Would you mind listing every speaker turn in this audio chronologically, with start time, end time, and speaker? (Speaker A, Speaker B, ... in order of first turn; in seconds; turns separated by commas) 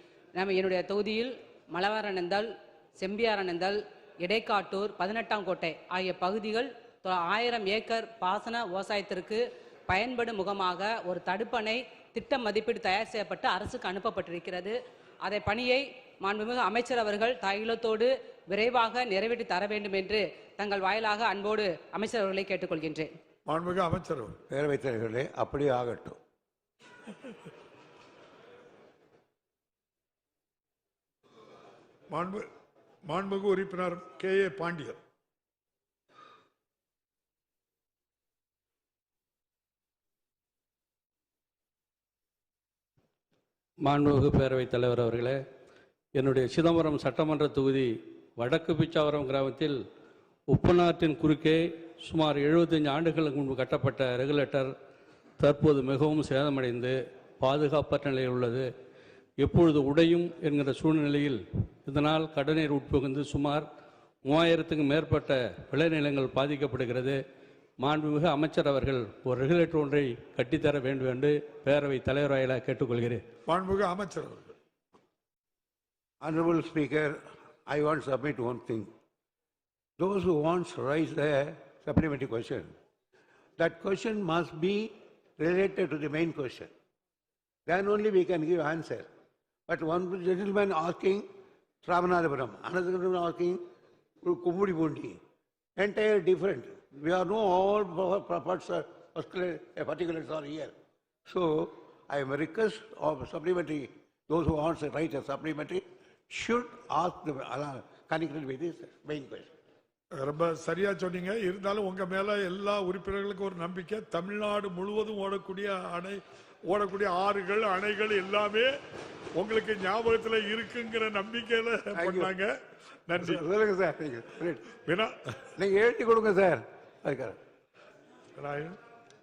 Speaker A: 0.3-23.1, Speaker B: 23.5-24.4, Speaker C: 24.5-26.2, Speaker B: 32.1-32.5, Speaker B: 33.1-35.0, Speaker D: 43.8-45.4, Speaker D: 46.2-49.8, Speaker D: 50.5-54.7, Speaker D: 55.4-58.7, Speaker D: 59.4-63.7, Speaker D: 64.2-67.2, Speaker D: 67.8-73.2, Speaker B: 73.5-74.5, Speaker C: 76.2-77.2, Speaker C: 77.7-78.9, Speaker C: 80.0-82.7, Speaker C: 83.6-86.7, Speaker C: 87.7-89.1, Speaker C: 89.7-91.2, Speaker C: 91.8-93.6, Speaker C: 94.2-95.2, Speaker C: 95.8-100.7, Speaker C: 101.3-109.5, Speaker B: 110.2-118.7, Speaker B: 119.4-122.5, Speaker C: 122.0-122.3, Speaker B: 123.1-123.4, Speaker C: 123.2-124.6, Speaker B: 124.9-125.1, Speaker C: 125.6-127.4, Speaker B: 128.4-128.8